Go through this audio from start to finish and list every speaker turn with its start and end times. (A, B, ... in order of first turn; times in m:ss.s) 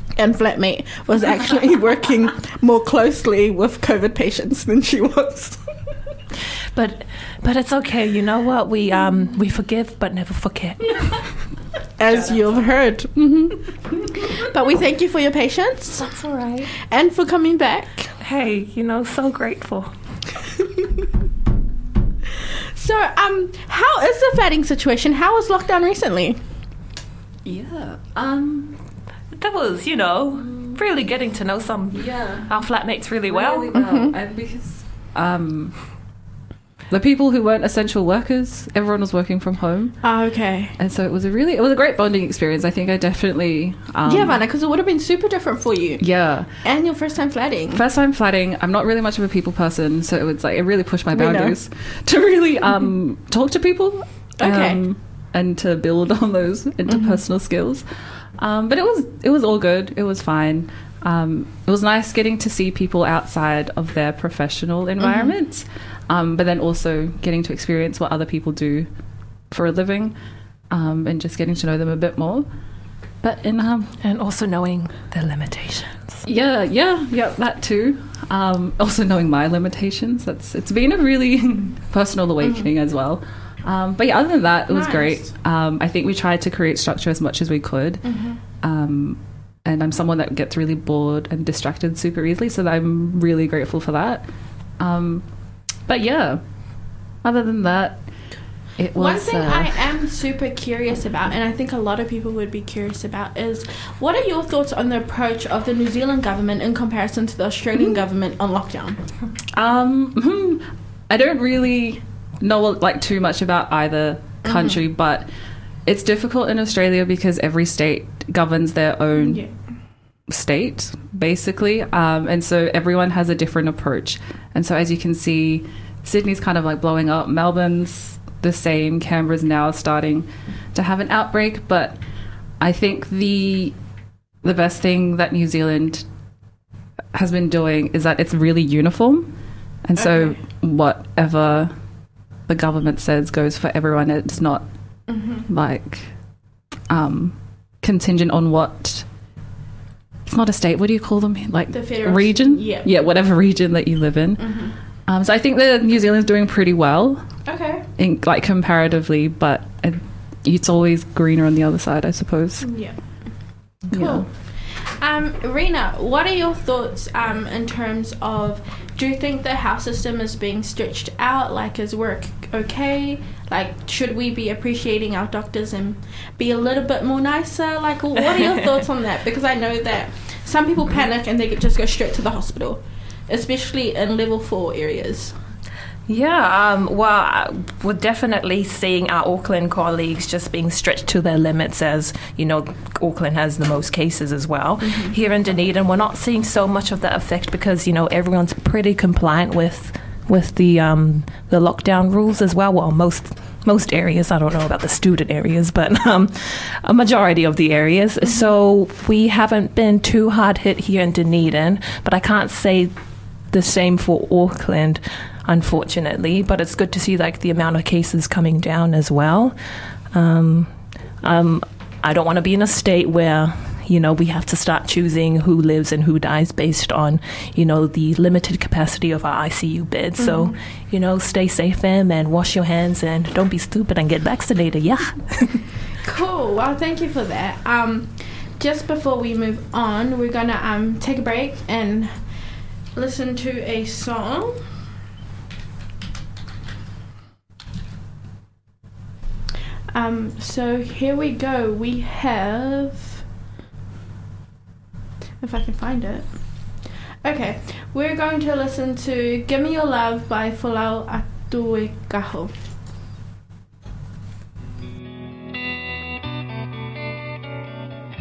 0:00.2-0:05.6 A
0:06.7-0:11.2 B
0:12.0-0:16.0 A
0:16.0-0:16.7 B
0:16.9-0:18.1 A
0:18.2-0:19.9 B
0:22.8-0:26.4 A
0:27.4-0:28.8 C
0:29.3-0:33.7 B
0:30.3-0:30.8 C
0:31.9-0:32.5 C
0:33.2-0:35.8 C
0:33.7-0:34.1 A
0:36.9-0:40.1 C
0:40.0-0:40.7 A
0:40.8-0:44.4 C
0:44.1-0:47.8 A
0:46.0-0:46.5 C
0:47.7-0:57.8 C
0:51.1-0:51.6 A
0:54.4-0:54.8 A
0:56.9-0:57.2 A
0:58.4-1:08.9 C
1:05.0-1:05.4 A
1:09.5-1:10.2 C
1:10.7-1:12.5 C
1:13.2-1:13.9 C
1:14.0-1:16.2 B
1:16.2-1:34.3 C
1:22.4-1:22.7 A
1:24.7-1:25.3 A
1:28.0-1:28.4 A
1:34.8-1:35.3 C
1:35.8-1:38.1 C
1:38.8-1:39.8 C
1:39.0-1:49.0 A
1:49.5-1:55.3 C
1:54.4-1:54.8 A
1:55.9-1:59.5 C
1:59.2-1:59.5 A
2:00.3-2:12.0 C
2:12.6-2:13.8 C
2:14.4-2:16.1 C
2:17.1-2:19.3 C
2:19.8-2:21.7 C
2:20.0-2:20.4 A
2:22.5-2:26.1 C
2:25.1-2:25.4 A
2:26.9-2:29.1 C
2:30.3-2:37.5 C
2:31.7-2:32.9 A
2:34.4-2:34.8 A
2:37.5-2:37.8 A
2:38.0-2:42.8 C
2:42.6-3:05.4 A
2:43.9-2:44.3 C
2:58.2-2:58.6 B
3:06.1-3:33.0 B
3:14.8-3:15.1 A
3:33.5-3:39.6 B
3:40.1-3:55.6 B
3:50.2-3:50.6 A
3:56.0-4:04.7 A
4:09.9-4:13.2 A
4:15.4-4:22.6 A